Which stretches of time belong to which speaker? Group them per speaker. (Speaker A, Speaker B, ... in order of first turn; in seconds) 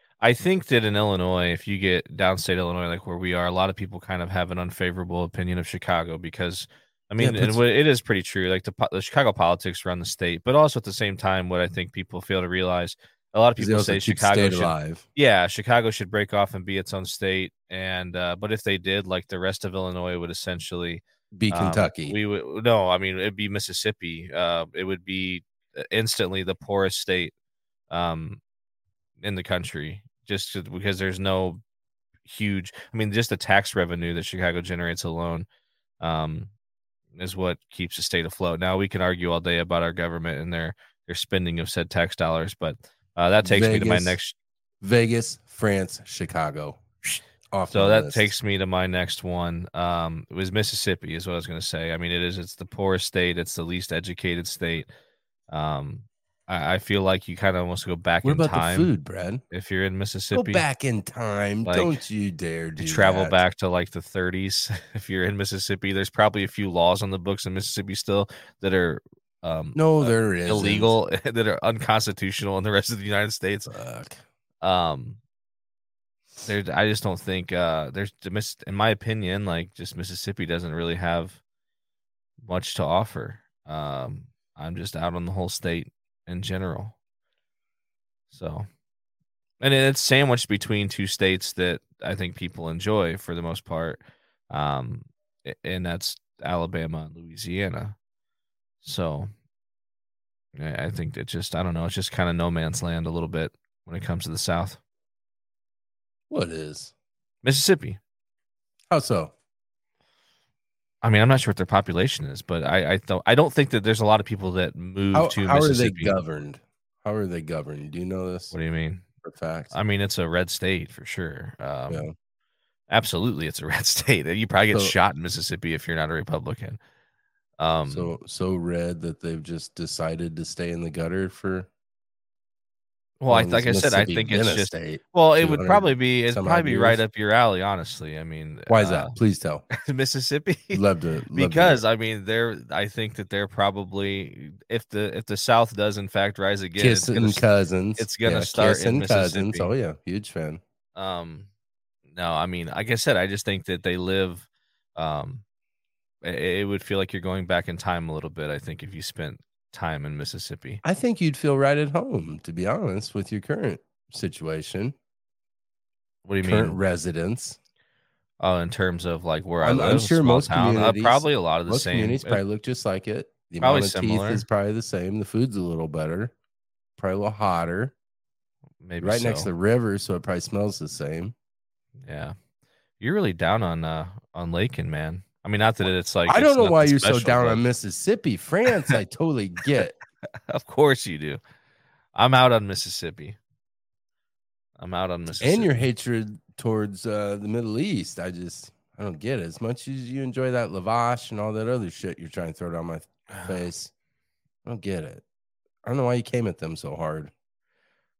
Speaker A: 0.2-27.3, 27.9-28.4, 29.2-31.6, 32.2-35.5, 36.0-36.5, 37.1-44.4, 47.7-54.9, 55.5-58.9, 59.5-60.6, 61.6-62.0, 62.8-73.8, 74.6-75.2, 76.5-81.4, 82.4-87.0, 88.3-88.7, 89.6-98.0, 98.8-99.3, 100.6-104.8, 107.4-108.0, 111.0-116.2, 118.5-119.0, 119.7-122.1, 122.9-126.8, 127.6-128.1, 133.2-139.1, 139.8-140.8, 141.3-147.4, 148.0-149.7, 151.0-151.5, 152.1-155.4, 156.2-160.8, 166.2-166.8, 168.4-172.4, 173.6-174.4, 178.8-179.5, 182.1-182.4, 183.0-187.6, 190.5-191.4, 192.1-193.4, 194.8-195.8, 203.3-203.6
Speaker B: 7.2-7.6, 13.6-15.1, 21.4-22.2, 43.4-44.2, 44.8-46.8, 47.5-48.3, 58.2-59.4, 60.3-63.4, 69.8-70.9, 73.7-74.2, 106.3-106.9, 108.9-109.3, 115.1-118.5, 119.2-119.7, 127.9-131.7, 133.3-137.0, 138.7-139.6, 140.7-141.8, 146.8-150.6, 160.8-164.9, 166.4-167.6, 169.6-176.3, 177.0-177.9, 179.0-181.3, 186.3-189.9, 195.4-203.9, 204.6-205.2, 205.8-207.3